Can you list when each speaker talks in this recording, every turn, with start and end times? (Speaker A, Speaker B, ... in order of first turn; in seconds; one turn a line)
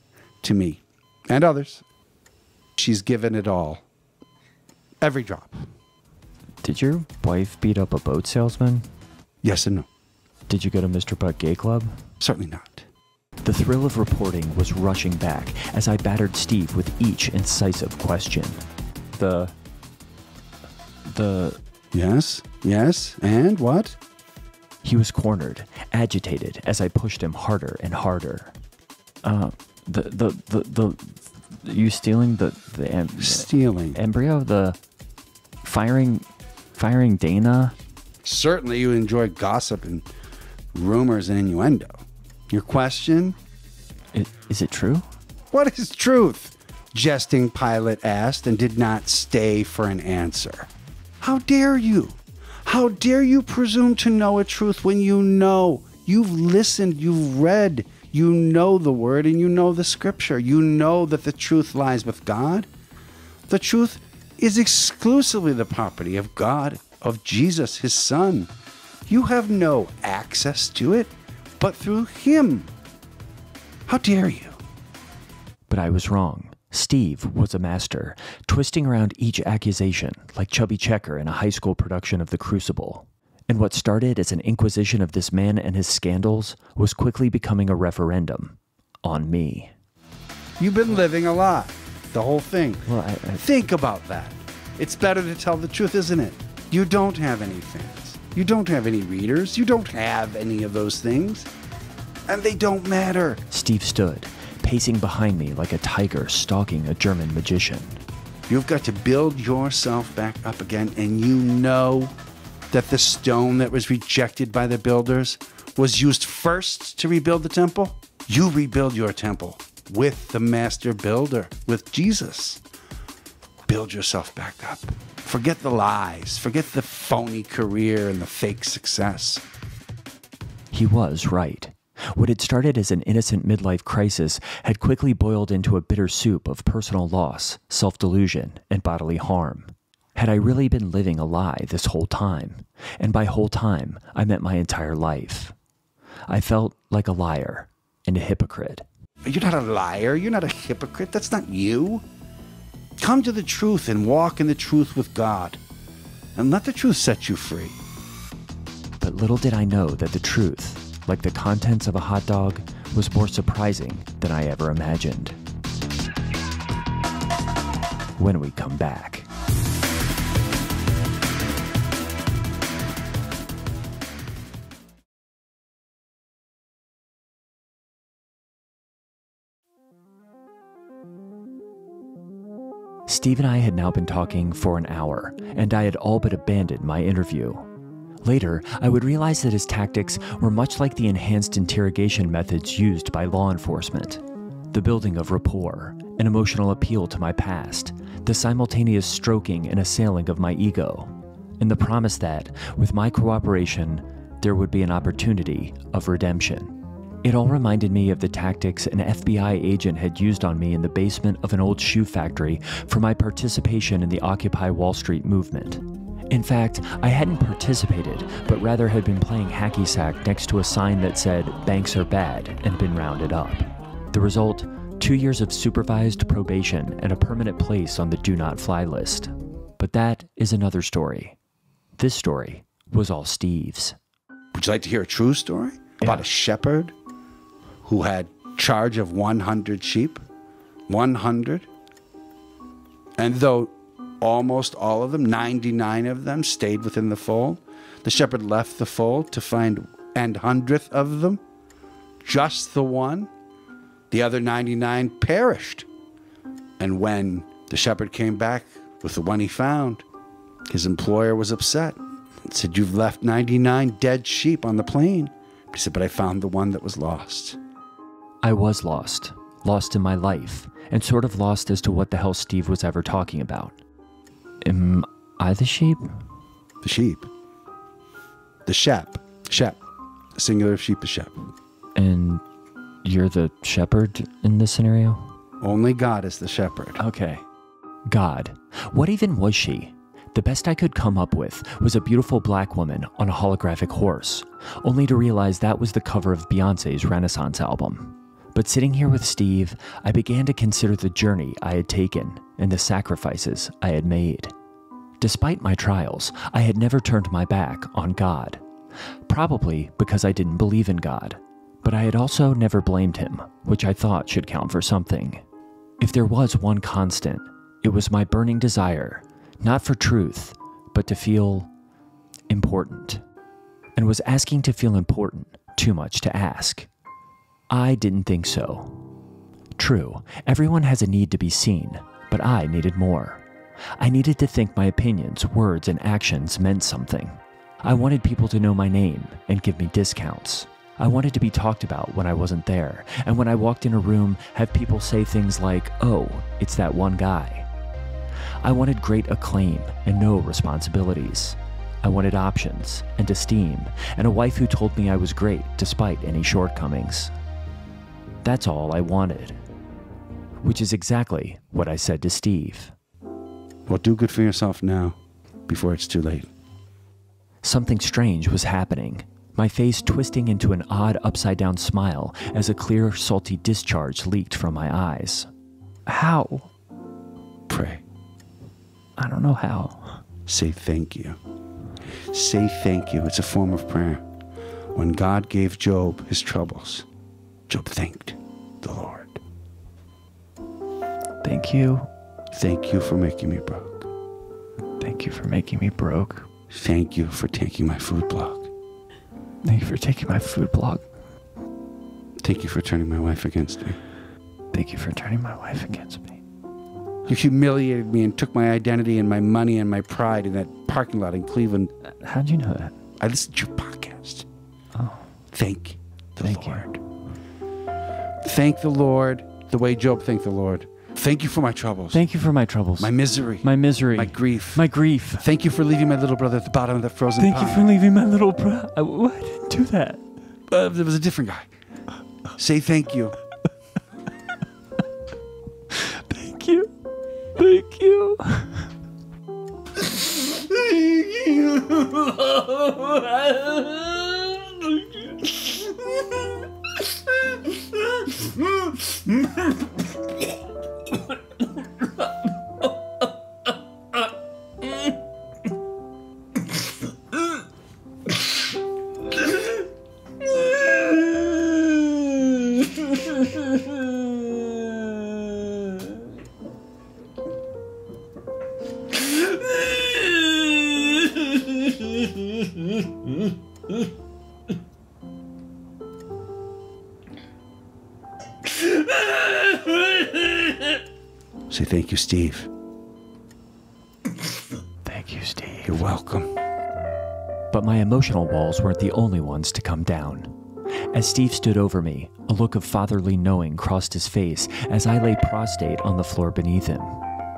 Speaker A: 0.4-1.8
Speaker A: 2.8-3.8
Speaker A: 5.0-5.6
Speaker B: 6.6-8.9
Speaker A: 9.4-9.9
Speaker B: 10.5-11.9
Speaker A: 12.2-12.9
Speaker B: 13.4-18.6
Speaker B: 19.1-19.5
Speaker B: 21.0-21.6
Speaker A: 21.9-24.0
Speaker B: 24.8-28.5
Speaker B: 29.2-34.8
Speaker A: 33.2-34.0
Speaker B: 35.6-36.2
Speaker B: 36.8-37.8
Speaker A: 38.2-40.1
Speaker A: 40.7-43.4
Speaker B: 44.1-45.1
Speaker A: 45.5-50.7
Speaker A: 51.2-62.7
Speaker A: 63.5-68.5
Speaker A: 69.1-72.7
Speaker A: 73.9-74.6
Speaker B: 75.7-89.7
Speaker A: 90.6-101.5
Speaker B: 92.9-93.4
Speaker A: 102.3-103.4
Speaker B: 103.5-108.0
Speaker A: 108.5-112.1
Speaker A: 112.7-122.6
Speaker A: 123.7-129.4
Speaker B: 130.7-145.5
Speaker B: 146.3-148.8
Speaker A: 149.2-152.0
Speaker A: 153.0-155.6
Speaker A: 156.3-157.8
Speaker B: 159.0-165.4
Speaker B: 168.2-169.3
Speaker B: 183.1-187.7
Speaker B: 188.2-231.3
Speaker B: 232.0-234.0
Speaker A: 234.5-236.9
Speaker A: 237.8-240.2
Speaker A: 240.9-241.7
Speaker A: 243.2-251.4
Speaker A: 252.2-253.3
Speaker A: 254.1-255.9
Speaker A: 256.8-260.0
Speaker A: 260.7-267.6
Speaker B: 268.4-273.8
Speaker B: 274.6-276.0
Speaker A: 276.8-277.3
Speaker A: 278.6-279.8
Speaker A: 280.4-281.5
Speaker B: 281.9-282.4
Speaker B: 283.0-285.3
Speaker A: 285.6-287.0
Speaker B: 287.0-287.4
Speaker B: 288.1-304.5
Speaker B: 305.2-308.6
Speaker B: 309.3-315.4
Speaker B: 316.0-321.7
Speaker B: 322.5-323.2
Speaker B: 324.0-326.9
Speaker B: 327.7-329.0
Speaker B: 329.8-333.4
Speaker B: 334.0-347.7
Speaker B: 348.6-357.3
Speaker B: 358.4-359.6
Speaker B: 360.6-362.9
Speaker A: 363.9-366.5
Speaker B: 367.6-375.5
Speaker B: 376.1-376.7
Speaker A: 377.7-378.0
Speaker B: 379.2-380.2
Speaker A: 380.4-381.4
Speaker A: 382.3-384.2
Speaker A: 384.9-387.1
Speaker A: 387.7-389.4
Speaker B: 391.4-392.1
Speaker A: 392.5-394.1
Speaker B: 395.0-396.5
Speaker A: 396.7-398.7
Speaker B: 399.6-401.0
Speaker A: 402.4-404.0
Speaker B: 404.7-406.4
Speaker A: 407.3-411.9
Speaker B: 412.0-412.9
Speaker A: 413.2-414.4
Speaker B: 414.9-415.2
Speaker A: 415.5-416.9
Speaker B: 416.4-417.0
Speaker A: 418.4-422.3
Speaker B: 422.1-425.4
Speaker A: 423.0-424.9
Speaker A: 425.4-427.9
Speaker B: 427.4-430.2
Speaker A: 430.7-431.7
Speaker A: 432.6-433.4
Speaker B: 435.9-436.9
Speaker B: 437.6-438.8
Speaker B: 442.0-444.1
Speaker A: 481.7-482.7
Speaker B: 485.0-486.1
Speaker A: 485.9-486.5
Speaker B: 487.7-490.5
Speaker B: 491.1-497.2